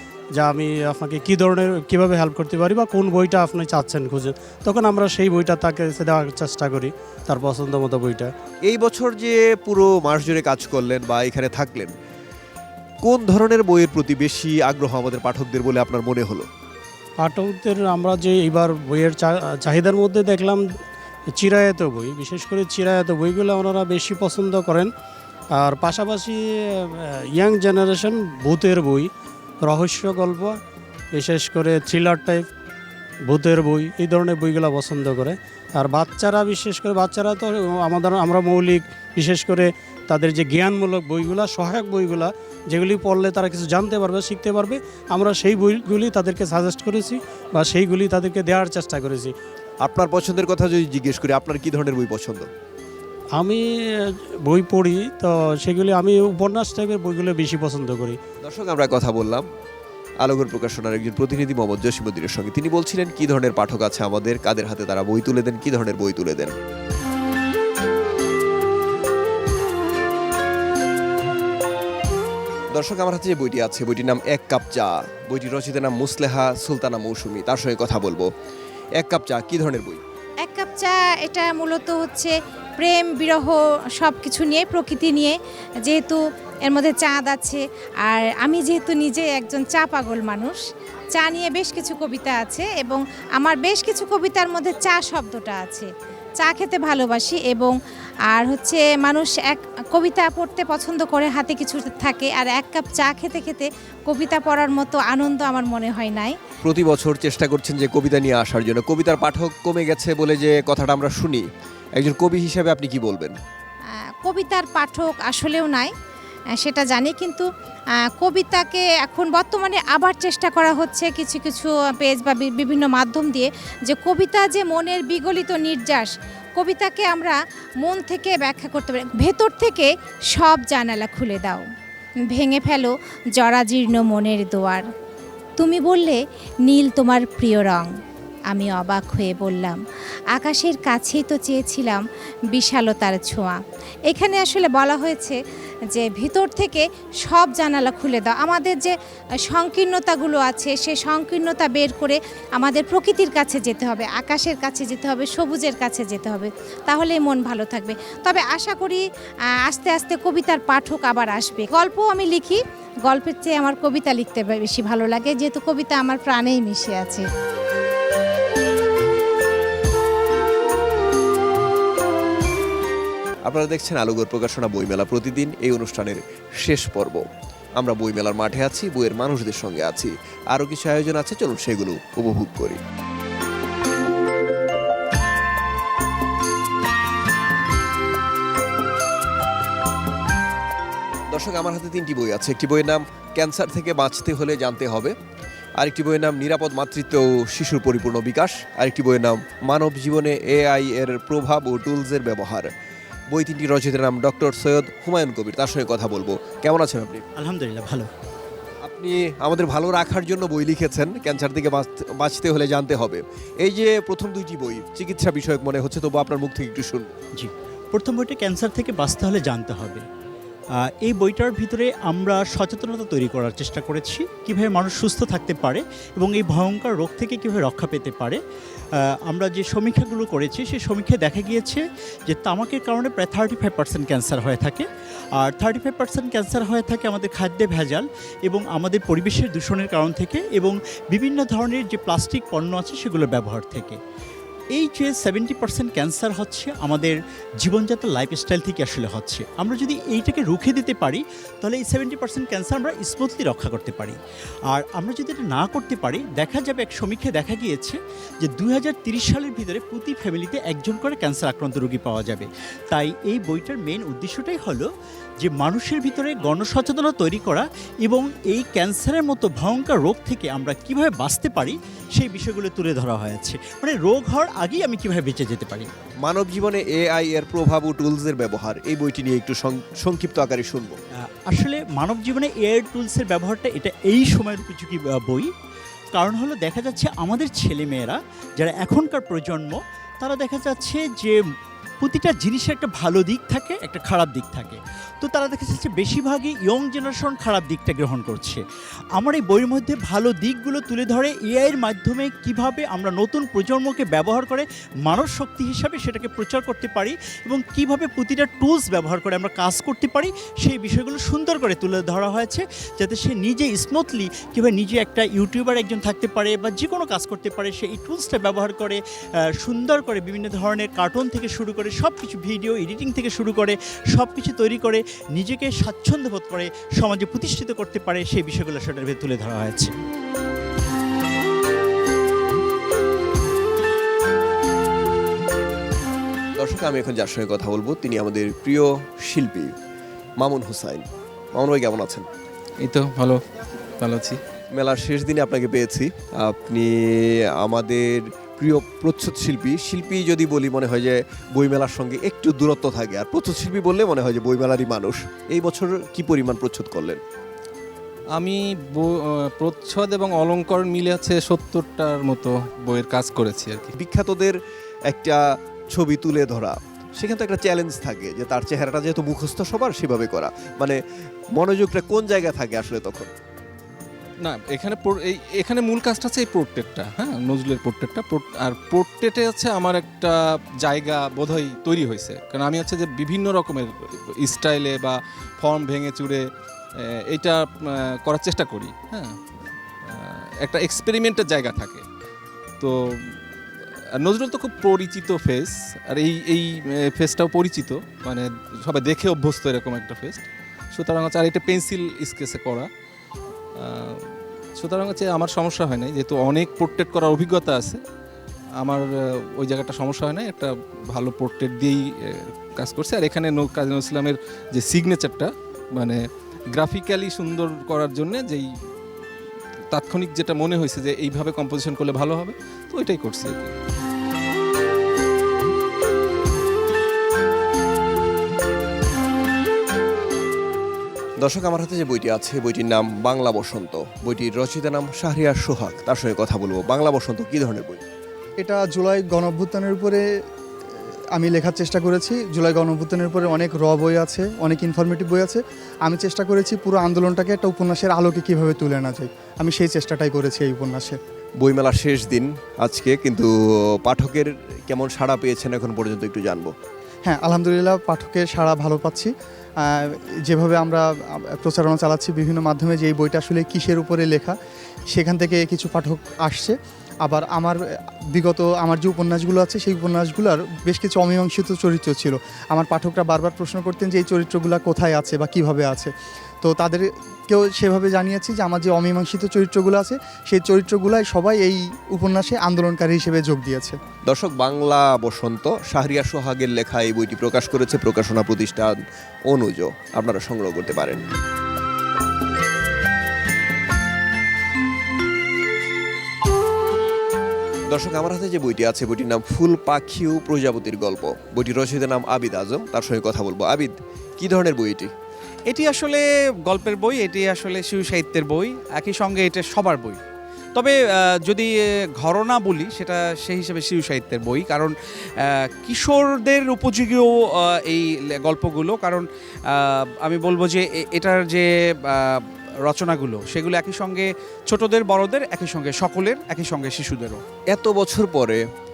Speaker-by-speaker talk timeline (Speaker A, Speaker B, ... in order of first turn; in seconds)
Speaker A: 0.4-8.3, 17.2-20.7, 21.4-24.9, 25.6-29.1, 29.7-30.6, 31.1-32.5, 33.3-49.3, 53.4-58.2
Speaker B: 8.7-11.9, 13.0-16.5, 49.8-52.5, 58.4-59.5, 60.2-66.5, 72.7-78.3, 79.0-80.0, 106.6-113.4, 173.4-182.8, 191.3-195.2, 195.8-202.7, 203.3-207.2, 208.8-217.2, 276.2-281.0, 336.6-339.8, 340.4-342.3, 344.7-357.2, 364.0-371.0, 371.6-373.3, 431.4-438.0, 451.6-453.5, 454.0-456.7, 484.3-491.2, 497.9-505.1, 527.7-528.6
Speaker C: 80.4-90.6, 91.2-95.9, 96.4-97.7, 98.3-106.4, 114.2-115.9, 116.6-117.5, 118.1-131.6, 132.3-134.8, 135.6-137.9, 138.5-139.8, 140.3-143.6, 144.1-145.4, 145.9-148.9, 149.4-159.0, 159.7-167.3
Speaker D: 207.4-208.1, 217.3-220.1, 220.7-228.4, 228.9-244.0, 244.7-254.2, 254.7-264.9, 265.4-275.9, 281.2-285.5, 286.1-291.5, 292.0-298.6, 299.1-330.0
Speaker E: 342.8-343.4, 344.0-344.4, 358.4-363.9, 374.4-389.4, 390.0-392.0, 392.8-402.9, 403.8-408.0, 408.8-418.7, 419.9-423.8
Speaker F: 438.6-440.2, 441.3-451.2, 457.2-464.6, 465.1-484.0
Speaker G: 505.7-510.2, 510.8-527.4